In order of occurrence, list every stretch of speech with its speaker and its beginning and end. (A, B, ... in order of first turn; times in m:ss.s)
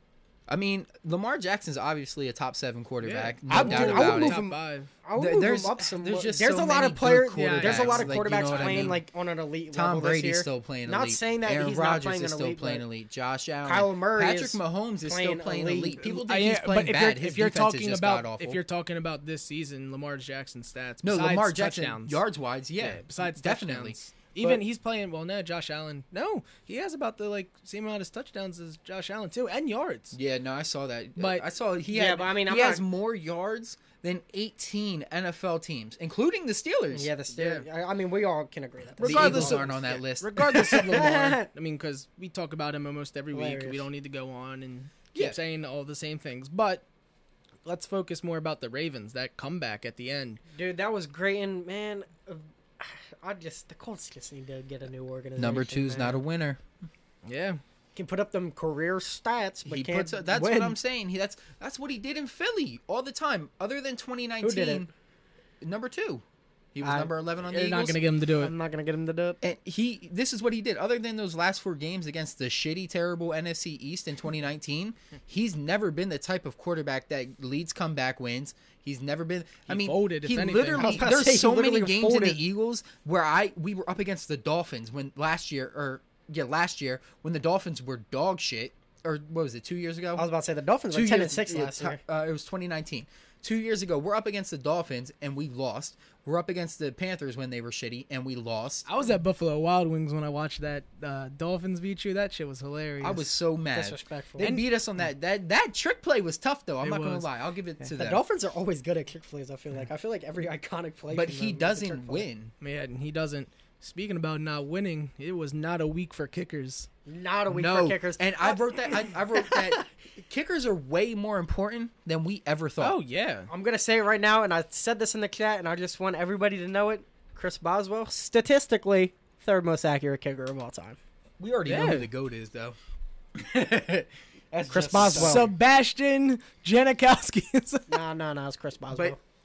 0:00.5-0:04.4 A
0:03.0-0:04.9 B
0:03.5-0:12.8 C
0:05.2-0:09.0 A
0:07.3-0:09.0 B
0:09.7-0:18.6 A
0:13.6-0:16.0 C
0:16.0-0:22.2 B
0:21.0-0:24.0 A
0:22.8-0:30.2 B
0:30.1-0:37.6 A
0:31.2-0:31.4 B
0:31.9-0:32.9 C
0:36.9-0:39.7 C
0:39.0-0:46.8 B
0:39.0-0:40.9 A
0:40.4-0:41.5 C
0:43.3-0:43.8 C
0:47.6-0:50.4 B
0:50.6-0:56.2 C
0:55.4-0:56.6 A
0:57.2-0:57.6 B
0:58.0-1:00.8 C
0:59.6-1:04.9 A
1:04.4-1:04.9 C
1:05.6-1:08.0 A
1:06.8-1:07.1 C
1:07.4-1:08.5 B
1:08.4-1:09.4 C
1:09.4-1:30.3 A
1:19.7-1:21.1 B
1:20.8-1:22.4 C
1:30.2-1:32.0 C
1:30.9-1:38.9 A
1:38.9-1:43.2 B
1:43.0-1:48.2 A
1:43.7-1:44.5 C
1:44.4-1:44.7 B
1:46.8-1:47.3 B
1:48.0-1:52.3 C
1:51.1-1:52.5 A
1:52.6-1:56.9 B
1:57.1-1:59.8 C
1:57.5-2:03.0 A
2:02.8-2:03.5 B
2:03.5-2:11.0 C
2:11.4-2:12.8 A
2:11.7-2:12.1 B
2:13.3-2:15.5 A
2:14.6-2:15.5 C
2:15.0-2:18.0 B
2:17.9-2:19.2 C